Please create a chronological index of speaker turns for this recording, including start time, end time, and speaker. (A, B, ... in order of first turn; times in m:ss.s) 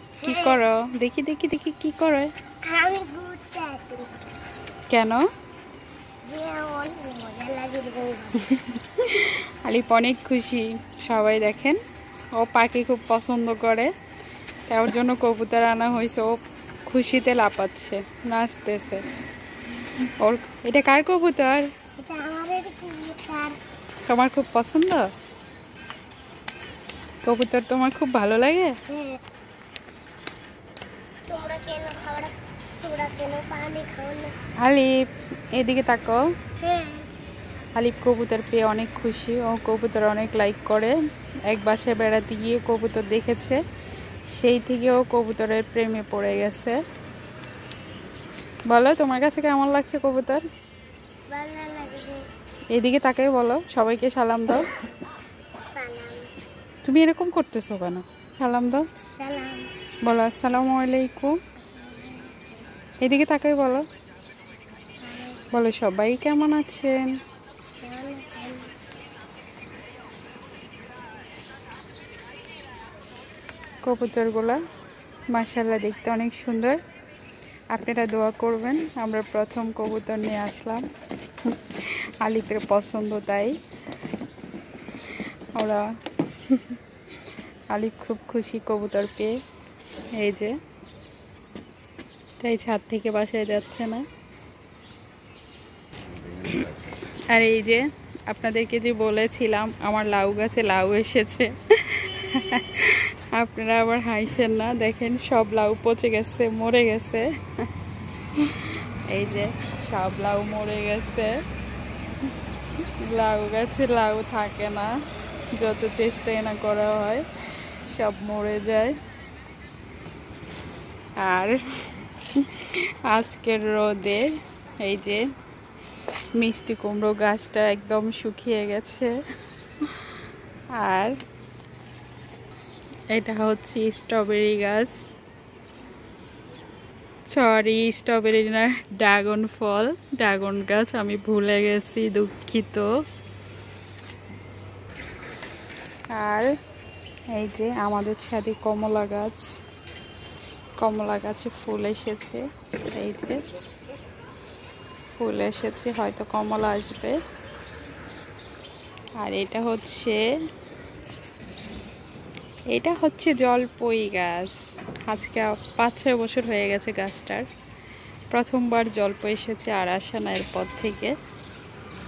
0:00.2-0:02.3 A
0:00.3-0:00.6 B
0:02.6-0:04.2 B
0:04.9-0:05.2 A
0:06.2-0:08.5 B
0:08.4-0:11.8 A
0:12.4-0:13.9 A
0:14.7-0:16.3 A
0:16.9-0:19.0 A
0:20.2-0:21.7 A
0:22.0-0:23.6 B
0:24.1-0:25.1 A
0:27.2-0:28.8 A
0:28.9-0:29.2 B
0:31.3-0:34.4 B
0:34.6-0:34.9 A
0:35.5-0:36.2 A
0:36.6-0:37.1 B
0:37.8-0:40.9 A
0:41.5-0:43.6 A
0:44.3-0:46.8 A
0:48.7-0:50.4 A
0:51.3-0:52.3 B
0:52.7-0:54.6 A
0:55.7-0:56.3 B
0:56.8-0:58.9 A
0:59.1-0:59.7 B
1:00.0-1:01.4 A
1:01.6-1:02.6 B
1:03.0-1:03.8 A
1:05.0-1:05.5 B
1:05.5-1:07.1 A
1:07.8-1:08.8 B
1:13.8-1:14.6 A
1:15.3-1:16.8 A
1:17.7-1:20.8 A
1:21.4-1:23.5 A
1:25.6-1:25.8 A
1:26.4-1:26.8 A
1:27.7-1:29.3 A
1:30.2-1:30.5 A
1:32.4-1:34.0 A
1:36.4-1:47.7 A
1:48.3-1:51.4 A
1:52.8-1:54.9 A
1:55.6-1:58.9 A
2:01.2-2:04.2 A
2:04.8-2:05.2 A
2:06.4-2:09.1 A
2:10.8-2:11.2 A
2:13.1-2:15.0 A
2:17.3-2:22.9 A
2:26.1-2:26.5 A
2:27.3-2:29.5 A
2:30.8-2:33.4 A
2:35.2-2:37.2 A
2:39.2-2:40.2 A
2:42.7-2:47.5 A
2:48.3-2:51.2 A